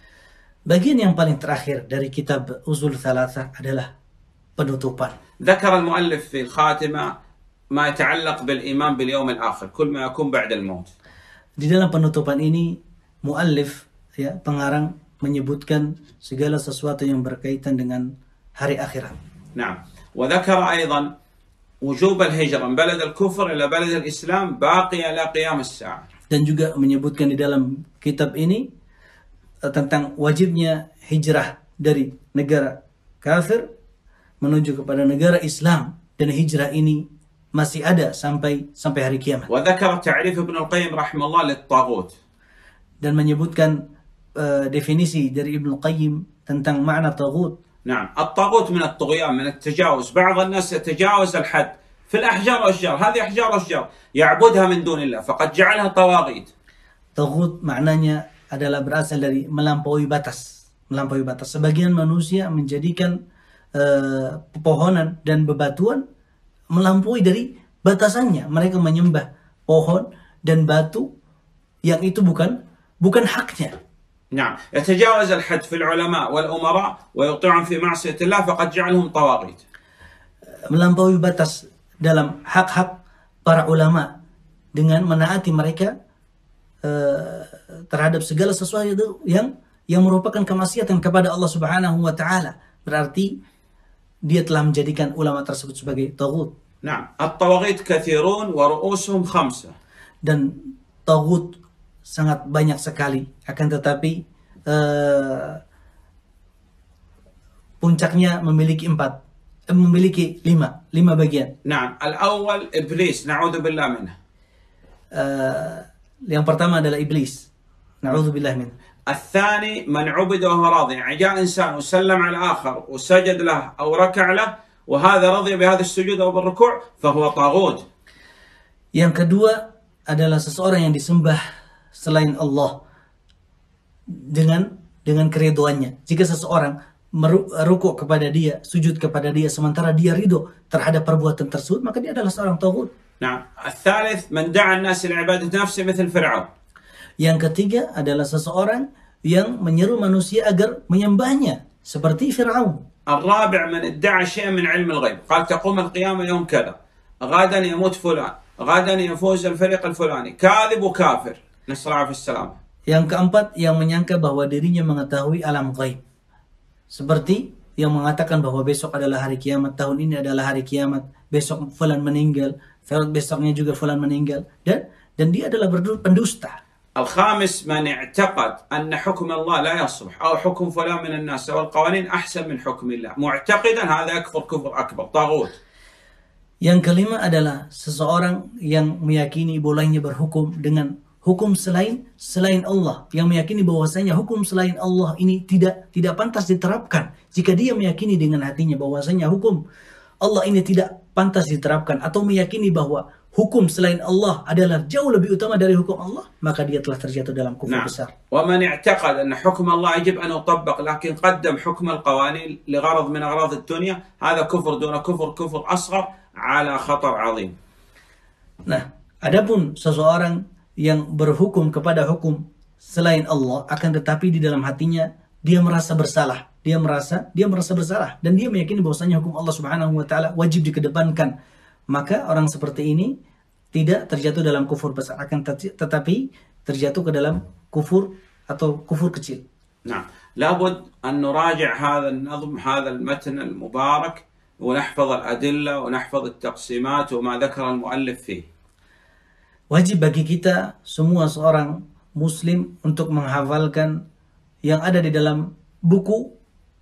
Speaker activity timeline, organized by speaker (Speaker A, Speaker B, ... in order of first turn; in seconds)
Speaker A: 0.7-3.9, 4.6-5.2, 11.6-18.1, 18.6-19.1, 26.3-28.7, 29.7-33.6, 34.4-37.0, 37.5-39.5, 43.0-43.8, 44.4-47.6, 57.2-63.1, 63.8-66.0, 66.7-71.1, 71.8-73.8, 80.7-84.1, 84.8-85.9, 86.8-93.3, 94.3-96.5, 100.2-100.5, 101.1-104.2, 104.7-105.6, 107.8-109.1, 109.7-111.5, 115.2-117.5, 118.0-118.7, 128.9-131.4, 132.0-132.8, 134.2-142.9, 147.2-152.8, 162.9-166.0, 166.9-176.6, 186.6-199.6, 200.2-208.1, 218.7-231.3, 231.9-233.1, 233.7-239.4, 249.7-253.9, 254.7-256.2
Speaker B: 5.4-7.1, 7.7-10.9, 19.6-21.1, 21.8-26.0, 39.5-42.1, 47.9-56.5, 74.3-79.6, 96.8-99.7, 111.7-114.1, 119.1-127.8, 143.2-146.5, 153.1-162.6, 177.0-185.6, 207.7-217.5, 239.8-248.5